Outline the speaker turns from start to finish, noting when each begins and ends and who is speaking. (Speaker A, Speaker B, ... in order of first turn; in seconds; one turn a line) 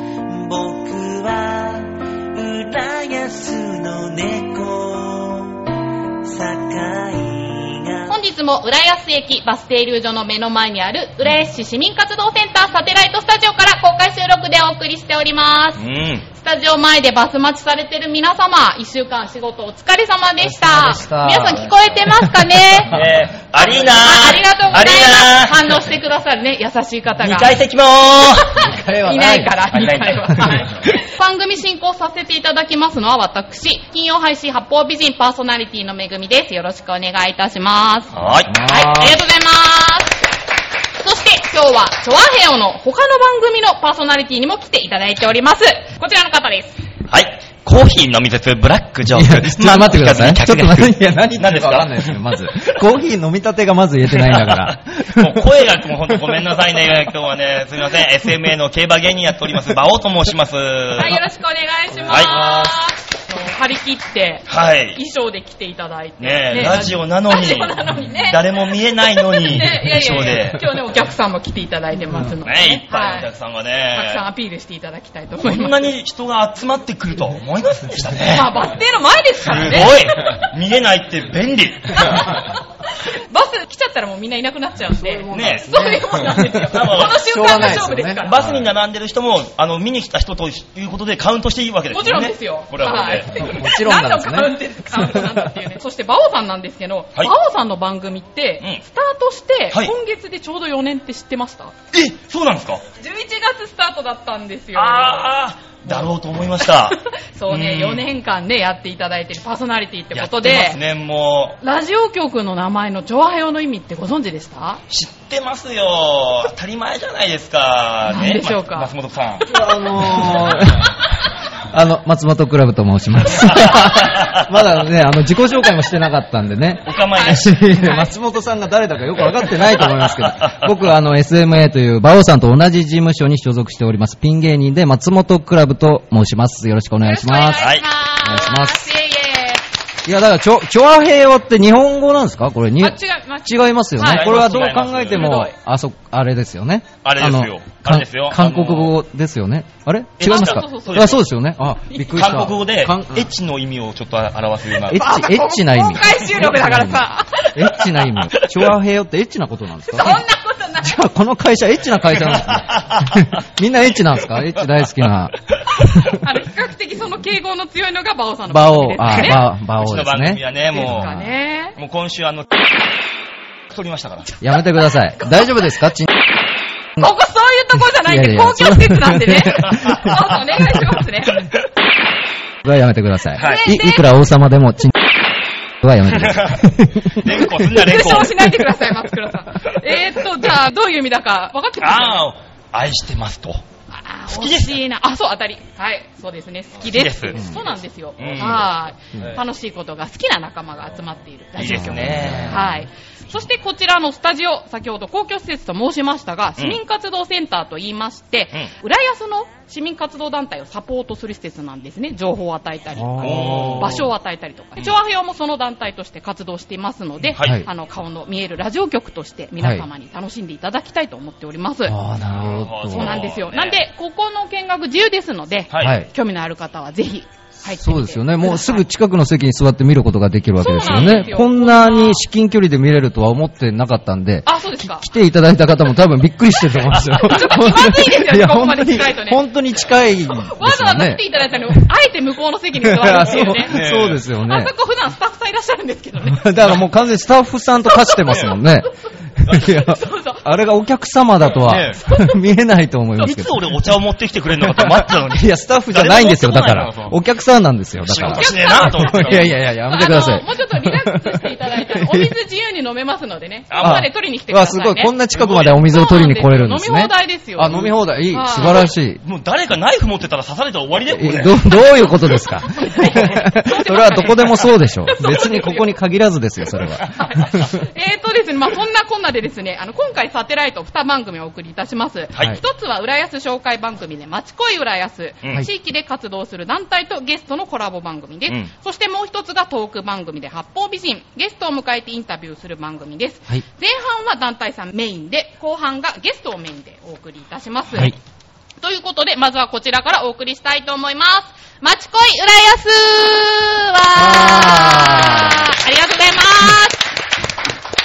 Speaker A: 0.3-5.6
Speaker A: 6.2-8.1
Speaker B: 8.1-22.9
Speaker C: 15.8-16.2
Speaker D: 20.4-22.4
Speaker C: 22.9-25.8
Speaker B: 23.6-27.5
Speaker C: 27.2-28.7
Speaker D: 28.6-29.7
Speaker B: 28.6-40.2
Speaker C: 29.7-30.8
Speaker C: 38.1-38.6
Speaker D: 38.5-39.1
Speaker B: 41.0-46.7
Speaker C: 47.1-52.2
Speaker D: 49.1-56.3
Speaker C: 54.1-61.2
Speaker B: 60.9-73.3
Speaker C: 62.0-62.8
Speaker C: 64.5-65.0
Speaker C: 66.2-70.7
Speaker C: 72.4-74.3
Speaker B: 73.9-75.9
Speaker C: 75.4-78.6
Speaker B: 78.3-80.2
Speaker C: 79.4-82.3
Speaker B: 81.9-82.5
Speaker B: 83.0-88.4
Speaker D: 84.9-88.3
Speaker C: 85.3-85.9
Speaker C: 86.7-87.7
Speaker C: 88.2-93.3
Speaker B: 91.9-101.7
Speaker D: 93.3-95.5
Speaker C: 101.9-102.8
Speaker B: 103.0-110.8
Speaker C: 104.7-108.1
Speaker C: 110.1-111.6
Speaker B: 111.6-114.8
Speaker C: 114.9-120.8
Speaker B: 118.1-118.9
Speaker D: 119.5-121.0
Speaker D: 121.7-138.9
Speaker C: 123.3-124.4
Speaker C: 126.8-128.0
Speaker B: 127.1-128.1
Speaker C: 129.8-130.6
Speaker B: 137.0-139.6
Speaker C: 137.5-137.8
Speaker D: 140.0-153.3
Speaker B: 142.8-145.5
Speaker C: 144.0-145.4
Speaker C: 147.0-148.9
Speaker C: 150.2-151.2
Speaker B: 150.2-151.3
Speaker B: 151.9-152.2
Speaker C: 152.1-155.1
Speaker D: 154.9-160.2
Speaker B: 154.9-157.8
Speaker B: 159.9-161.0
Speaker D: 160.8-166.2
Speaker C: 162.6-163.1
Speaker B: 166.1-169.4
Speaker D: 168.5-171.2
Speaker C: 169.1-171.2
Speaker B: 170.7-171.8
Speaker C: 171.8-172.5
Speaker C: 173.7-174.3
Speaker D: 174.4-176.1
Speaker B: 175.2-175.5
Speaker B: 177.0-181.4
Speaker D: 177.8-180.9
Speaker D: 182.6-184.9
Speaker B: 183.4-184.1
Speaker C: 183.4-183.7
Speaker D: 185.8-187.7
Speaker C: 186.1-188.4
Speaker B: 187.7-192.2
Speaker D: 188.3-188.7
Speaker C: 191.8-193.6
Speaker B: 193.9-221.9
Speaker C: 194.3-194.8
Speaker C: 196.8-197.4
Speaker C: 198.2-199.3
Speaker C: 201.6-202.6
Speaker D: 201.6-202.8
Speaker D: 212.9-214.0
Speaker C: 213.2-214.1
Speaker C: 217.3-217.6
Speaker D: 217.4-217.7
Speaker D: 219.6-219.8
Speaker D: 221.8-223.2
Speaker C: 222.2-223.8
Speaker B: 222.9-228.8
Speaker C: 225.7-226.0
Speaker D: 225.8-226.1
Speaker D: 227.7-241.8
Speaker B: 230.6-232.2
Speaker C: 230.8-231.3
Speaker B: 234.4-235.1
Speaker B: 237.1-243.9
Speaker D: 242.8-244.7
Speaker C: 243.6-244.2
Speaker B: 244.4-246.6
Speaker D: 246.2-254.0
Speaker C: 246.6-246.8
Speaker C: 248.2-248.5
Speaker B: 249.5-250.4
Speaker C: 251.5-252.0
Speaker C: 253.2-257.1
Speaker D: 254.6-262.4
Speaker C: 258.0-259.7
Speaker B: 258.2-265.1
Speaker C: 263.7-264.1
Speaker D: 263.8-269.2
Speaker C: 265.3-265.9
Speaker B: 265.8-268.9
Speaker C: 269.2-271.8
Speaker D: 271.1-277.8
Speaker B: 272.6-275.9
Speaker B: 277.0-298.1
Speaker B: 298.8-307.1
Speaker D: 304.1-305.7